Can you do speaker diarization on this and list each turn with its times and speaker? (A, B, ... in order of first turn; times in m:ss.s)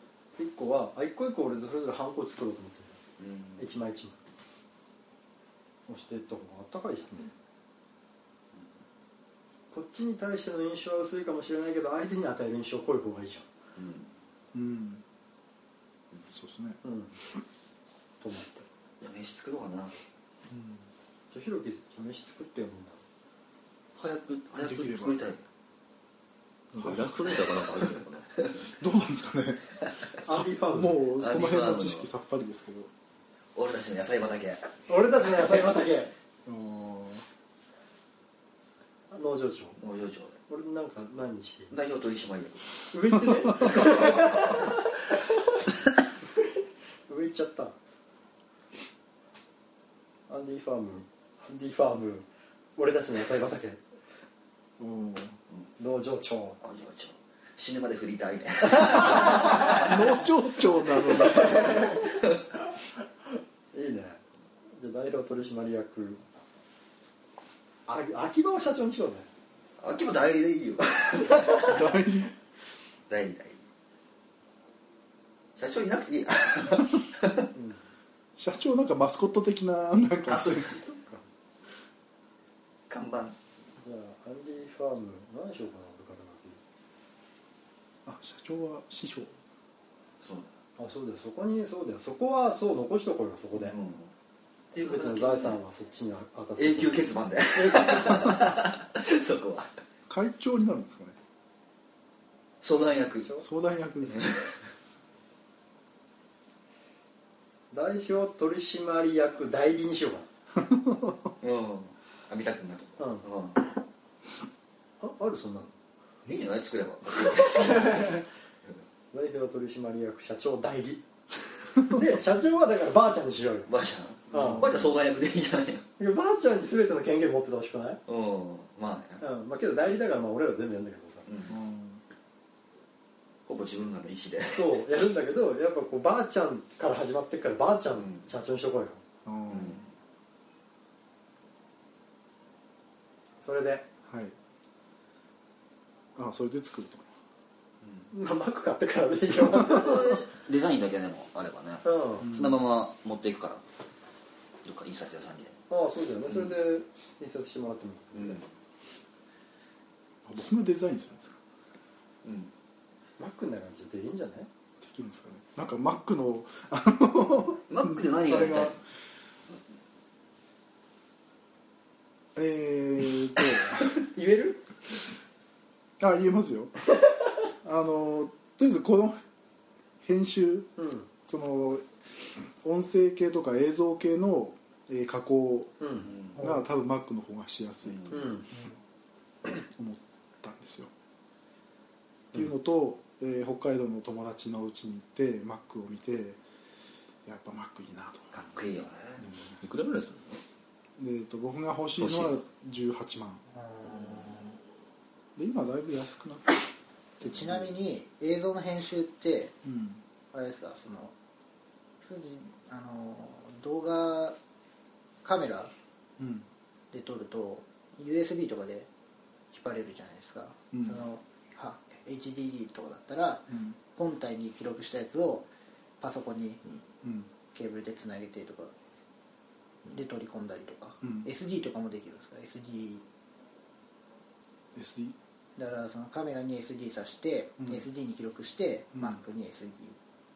0:00.4-0:03.0 A
0:03.2-0:03.7 B
0:03.6-0:04.2 A
0:05.9-0:07.2 A
0:09.7-0:13.5 A
0:13.8-0:14.1 B
0:14.5-0:15.0 C
0:16.3-0:16.8 C
0:16.8-0:17.1 A
0:18.2-0:18.6 A
0:19.0-0:19.9 B
0:20.5-0:20.9 C
0:21.3-0:23.0 A
0:24.0-0:25.4 B
0:24.6-0:25.2 C
0:26.7-0:28.3 D
0:26.8-0:27.1 C
0:28.7-0:32.9 C
0:30.2-0:31.0 A
0:31.1-0:32.1 B
0:33.5-0:34.8 B
0:34.9-0:36.1 A
0:36.4-0:37.2 C
0:39.1-0:39.8 A
0:39.8-0:40.4 B
0:40.5-0:41.7 A
0:41.7-0:42.9 B
0:42.9-0:45.2 A
0:43.6-0:44.1 B
0:47.1-0:47.7 A
0:50.3-0:53.8 A
0:54.8-0:55.4 C
0:55.8-0:56.6 A
0:56.6-1:00.2 B
0:58.9-0:59.7 A
0:59.1-1:01.9 C
1:00.9-1:02.2 B
1:01.2-1:02.0 A
1:03.7-1:04.2 A
1:04.7-1:06.2 A
1:07.9-1:09.3 A
1:09.8-1:11.9 B
1:11.6-1:12.3 C
1:13.1-1:13.6 B
1:15.6-1:17.5 B
1:17.5-1:17.8 A
1:18.4-1:20.7 C
1:20.2-1:20.9 B
1:20.7-1:21.2 A
1:22.9-1:23.4 B
1:23.8-1:26.6 A
1:28.0-1:29.3 C
1:30.2-1:30.5 B
1:30.8-1:33.8 A
1:33.6-1:34.1 B
1:34.7-1:35.6 B
1:34.8-1:38.4 A
1:36.6-1:39.7 B
1:40.1-1:41.2 C
1:42.6-1:43.3 B
1:43.1-1:43.5 A
1:43.4-1:44.3 C
1:44.0-1:44.6 B
1:47.7-1:50.3 A
1:50.6-1:51.3 C
1:51.4-1:53.6 B
1:53.0-1:53.2 A
1:55.0-1:55.7 A
1:56.2-1:58.2 B
1:57.7-1:58.1 A
1:59.1-2:01.0 A
2:01.8-2:03.7 A
2:03.7-2:05.9 B
2:04.3-2:04.7 A
2:04.3-2:04.9 C
2:06.0-2:08.0 A
2:08.0-2:09.2 B
2:09.2-2:11.2 A
2:11.2-2:11.6 B
2:11.5-2:12.0 C
2:13.5-2:14.8 B
2:14.4-2:19.0 A
2:18.0-2:18.3 B
2:19.2-2:19.8 C
2:19.5-2:19.9 B
2:23.4-2:23.9 A
2:24.1-2:24.3 C
2:26.2-2:27.1 C
2:27.8-2:28.1 B
2:28.1-2:30.2 A
2:29.3-2:33.6 B
2:31.8-2:32.3 A
2:32.2-2:32.6 C
2:34.6-2:35.6 B
2:35.7-2:38.4 A
2:38.1-2:38.5 B
2:40.2-2:41.4 C
2:42.2-2:42.5 B
2:43.2-2:44.5 A
2:44.8-2:48.7 C
2:47.7-2:48.8 B
2:48.3-2:48.6 A
2:52.3-2:53.9 C
2:53.8-2:54.6 A
2:56.0-2:56.7 C
2:57.6-2:59.2 C
3:00.0-3:00.7 C
3:00.8-3:01.1 A
3:01.2-3:01.8 C
3:02.6-3:05.7 C
3:05.8-3:06.1 A
3:06.1-3:06.4 B
3:06.3-3:06.6 E
3:06.4-3:08.3 C
3:07.9-3:08.1 B
3:08.1-3:08.5 A
3:09.6-3:10.9 C
3:12.3-3:16.4 C
3:17.2-3:18.4 C
3:18.3-3:19.2 B
3:19.2-3:19.5 C
3:19.6-3:20.4 D
3:21.0-3:23.4 C
3:22.0-3:22.4 D
3:23.5-3:24.4 E
3:25.4-3:26.6 C
3:27.2-3:27.7 C
3:27.2-3:29.5 E
3:29.6-3:30.0 C
3:30.3-3:31.1 E
3:32.0-3:34.4 E
3:35.2-3:35.7 E
3:36.2-3:36.4 C
3:36.9-3:38.9 E
3:39.5-3:45.5 E
3:40.7-3:41.0 C
3:43.5-3:43.8 C
3:46.0-3:46.6 E
3:47.0-3:47.3 C
3:47.5-3:48.7 E
3:49.9-3:53.0 E
3:51.0-3:51.3 C
3:54.7-3:55.1 C
3:55.6-4:00.0 E
3:57.6-3:57.8 C
3:58.9-3:59.2 C